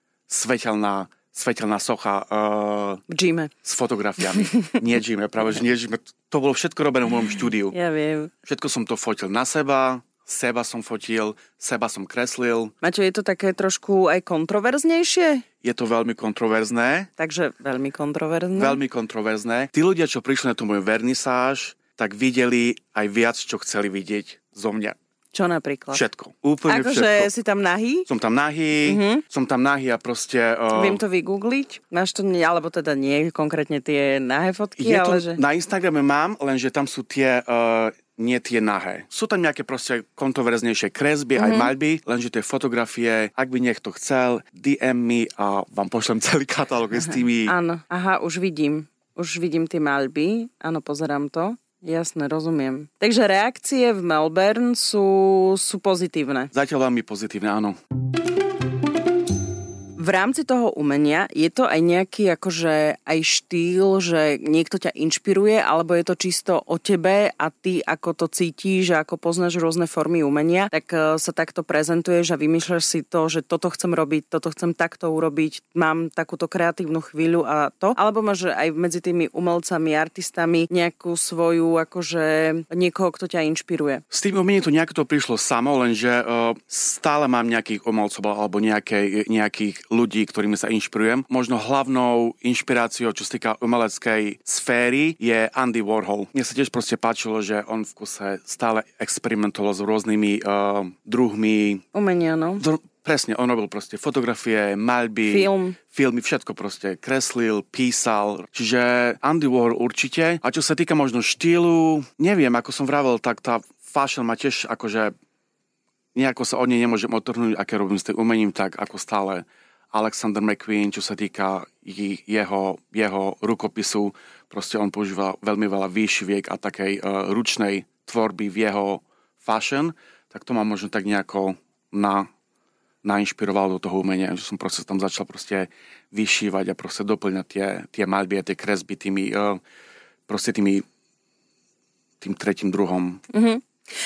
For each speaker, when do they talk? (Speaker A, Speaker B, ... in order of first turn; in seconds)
Speaker A: 0.3-3.0, 3.6-7.8, 8.5-12.7, 15.6-17.1, 18.6-25.0, 25.9-27.3, 28.1-31.0, 34.8-47.5, 56.5-57.8, 84.1-101.8, 102.6-115.1, 116.2-132.3, 133.0-139.6, 140.3-140.8, 142.2-143.2
Speaker B: 3.1-3.5, 4.4-4.7, 7.7-8.3, 12.8-15.4, 17.2-18.8, 25.3-26.0, 26.7-28.1, 28.8-29.2, 30.7-35.4, 41.4-41.7, 47.0-56.5, 60.0-84.0, 101.9-102.6, 105.3-105.8, 143.3-143.6